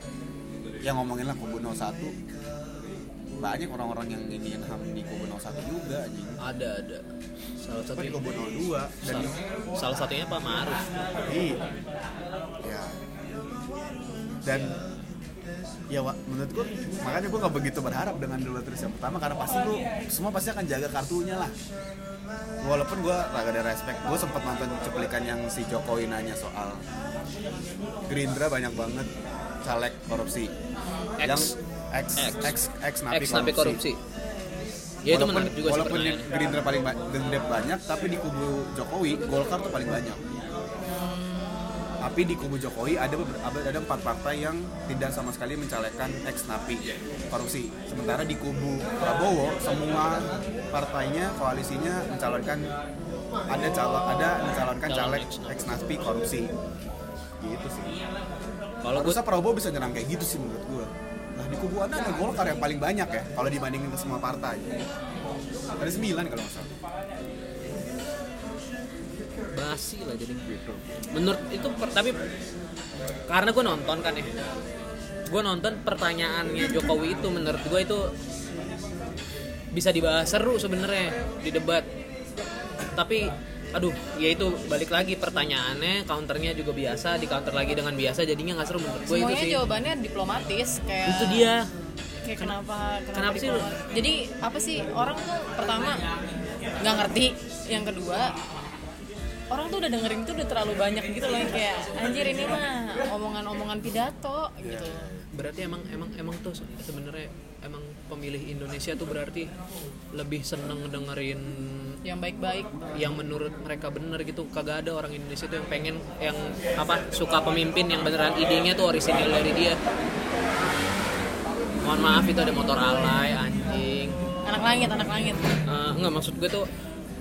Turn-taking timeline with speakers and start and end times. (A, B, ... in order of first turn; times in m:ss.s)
0:00.8-0:02.2 A
0:03.4-0:06.4 A
0:06.4-0:07.0 B
0:07.6-0:08.2 B
0:07.9-0:09.3 A
0:09.0-0:10.8 B
0:11.3-0:11.6 A
0:12.6-0:12.9 A
0:14.4-0:14.7 A
0:15.9-0:21.5 A
0:22.6-0:26.8 A
0:28.1-0:29.1 A
0:29.6-0:30.5 A
0:30.9-0:31.2 C
0:31.2-0:31.6 B
0:31.2-0:33.8 A
0:32.2-0:32.5 B
0:33.1-0:34.0 B
0:35.0-0:36.3 B
0:35.1-0:40.2 A
0:40.9-0:41.7 C
0:42.0-0:52.7 A
0:53.5-0:56.5 A
0:54.9-0:56.0 B
0:57.4-0:57.9 A
0:58.8-0:59.2 B
0:58.9-1:04.8 A
1:05.8-1:06.7 A
1:09.5-1:10.4 B
1:10.5-1:10.8 A
1:11.1-1:12.2 B
1:13.3-1:14.3 B
1:15.3-1:18.1 B
1:19.7-1:21.9 B
1:23.0-1:29.7 B
1:29.1-1:31.5 C
1:31.1-1:31.7 B
1:32.2-1:36.0 C
1:33.1-1:33.7 B
1:36.8-1:38.3 C
1:39.5-1:45.1 C
1:44.6-1:45.3 A
1:45.4-1:49.5 B
1:50.1-1:52.0 B
1:52.0-1:52.8 C
1:52.9-1:59.8 B
2:01.8-2:04.2 B
2:04.5-2:05.5 C
2:05.7-2:06.7 B